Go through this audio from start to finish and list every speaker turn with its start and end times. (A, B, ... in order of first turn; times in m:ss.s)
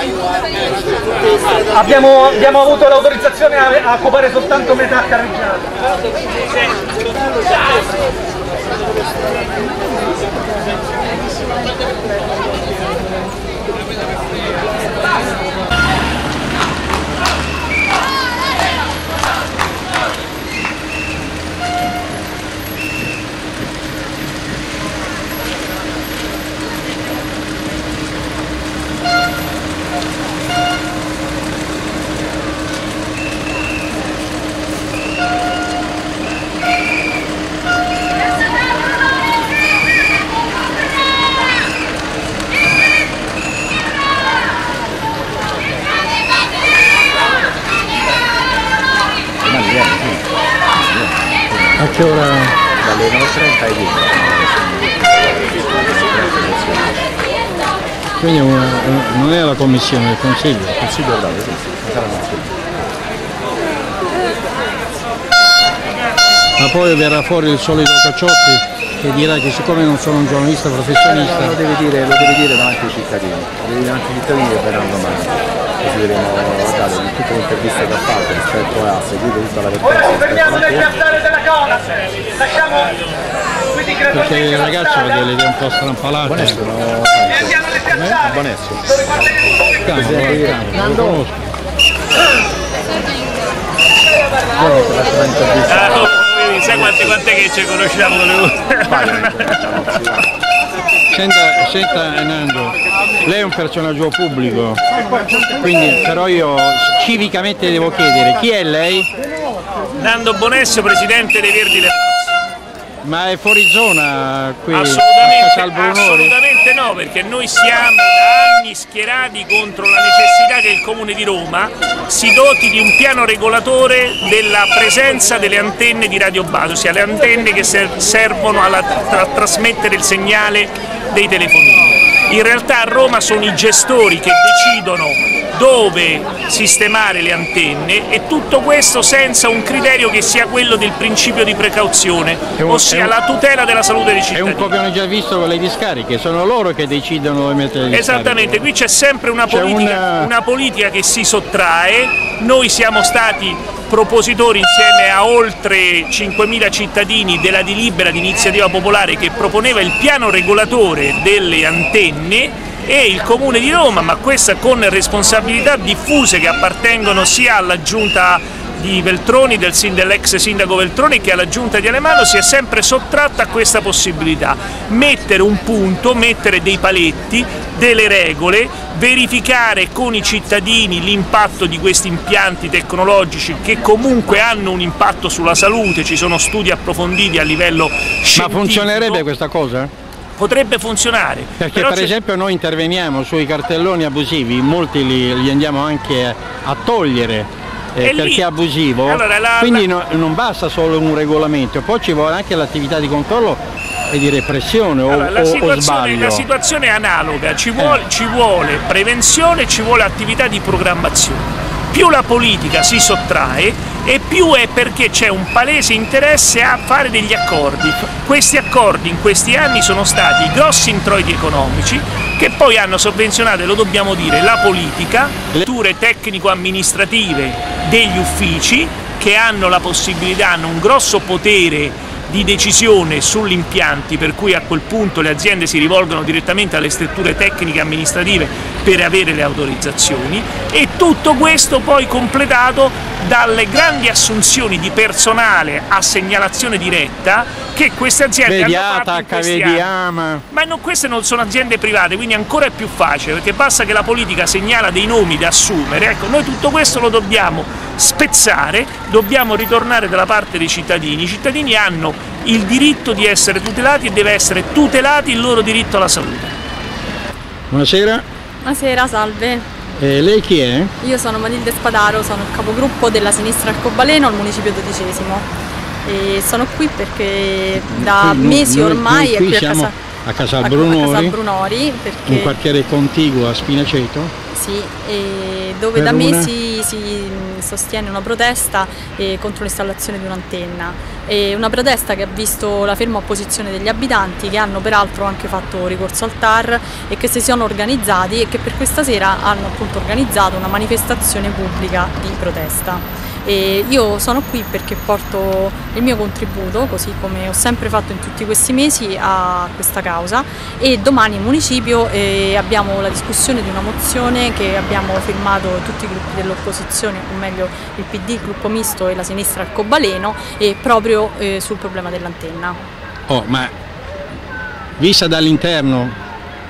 0:01.7-0:05.7 A
0:49.4-0:57.1 B
0:51.8-0:52.5 C
0:58.2-1:00.8 C
1:00.8-1:02.6 B
1:06.6-1:11.6 C
1:11.1-1:20.9 B
1:19.8-1:22.9 A
1:23.7-1:25.4 A
1:24.1-1:26.6 C
1:26.2-1:27.6 B
1:27.3-1:30.4 A
1:27.8-1:28.2 C
1:28.3-1:29.0 B
1:29.8-1:31.5 C
1:30.0-1:30.6 B
1:34.7-1:36.1 B
1:35.6-1:39.6 D
1:39.0-1:40.0 B
1:41.1-1:44.8 C
1:45.5-1:49.1 C
1:50.0-1:52.3 D
1:53.0-1:56.3 C
1:54.7-2:24.8 D
2:22.6-2:23.1 C
2:24.3-2:28.6 C
2:27.9-3:09.2 D
2:29.5-2:30.3 C
3:08.4-3:09.9 C
3:10.4-3:12.1 D
3:11.6-3:26.4 C
3:18.0-3:18.5 D
3:19.0-3:19.9 D
3:25.0-4:09.9 D
4:08.4-4:10.4 C
4:10.5-4:26.5 D
4:27.7-4:28.2 C
4:28.6-4:29.6 E
4:29.9-4:30.9 C
4:31.0-4:35.4 E
4:36.0-4:39.9 E
4:37.8-4:41.4 C
4:40.6-4:42.5 E
4:42.2-4:44.3 C
4:44.5-5:22.8 E
4:45.9-4:46.5 C
5:23.3-5:23.7 C
5:25.0-5:26.2 C